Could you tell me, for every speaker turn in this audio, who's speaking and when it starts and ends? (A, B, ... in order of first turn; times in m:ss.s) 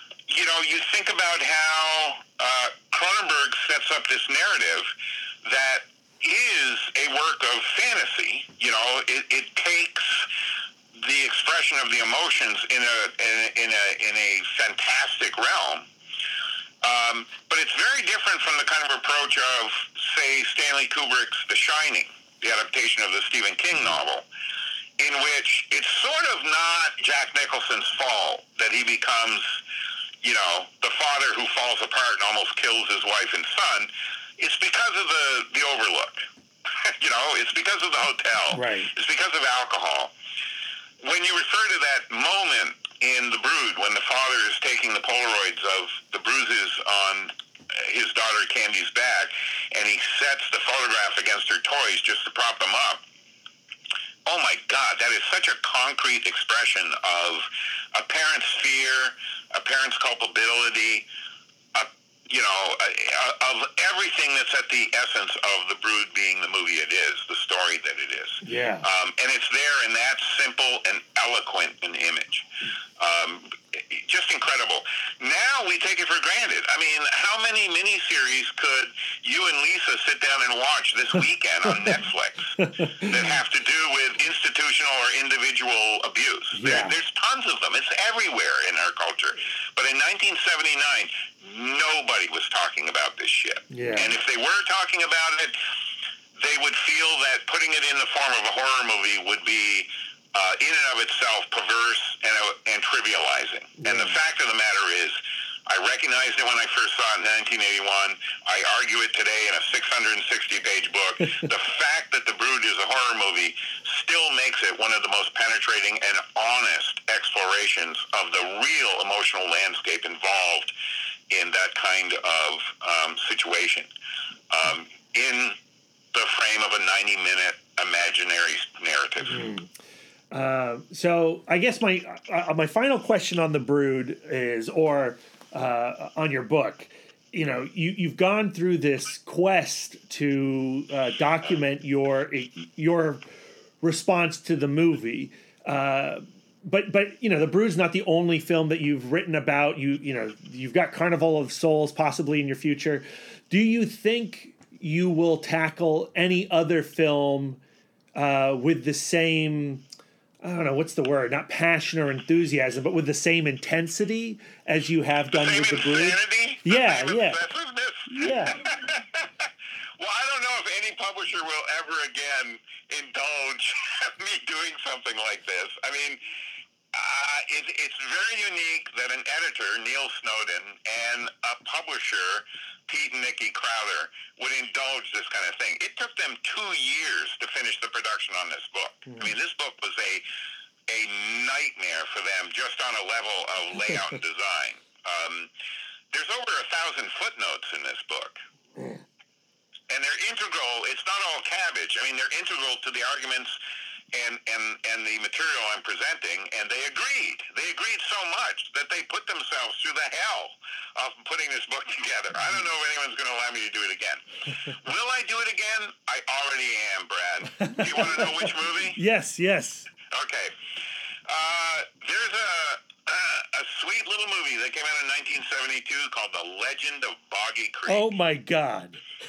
0:00.3-0:04.9 A
0:05.4-0:10.3 A
0:10.9-0:15.8 A
0:16.8-0:24.2 A
0:25.0-0:29.6 A
0:30.2-0:36.3 A
0:36.8-0:40.1 A
0:38.5-0:38.9 B
0:41.0-0:53.0 A
0:54.2-1:01.0 A
1:01.7-1:12.4 A
1:08.4-1:08.8 B
1:13.0-1:35.6 A
1:22.6-1:23.1 B
1:26.5-1:27.0 B
1:33.7-1:34.1 B
1:36.4-2:00.7 A
1:43.8-1:44.1 B
2:01.3-2:03.9 A
2:04.5-2:05.6 A
2:06.1-2:09.5 A
2:09.2-2:09.7 B
2:10.3-2:23.2 B
2:23.8-2:37.6 B
2:38.1-2:39.8 B
2:40.4-2:47.4 B
2:45.3-2:56.2 A
2:48.1-2:48.6 B
2:56.9-3:10.2 A
3:10.9-3:15.5 A
3:16.1-3:18.4 A
3:19.9-3:23.6 A
3:24.1-3:39.0 A
3:37.6-3:39.9 B
3:40.1-3:40.5 A
3:41.3-3:48.0 A
3:47.9-3:49.0 B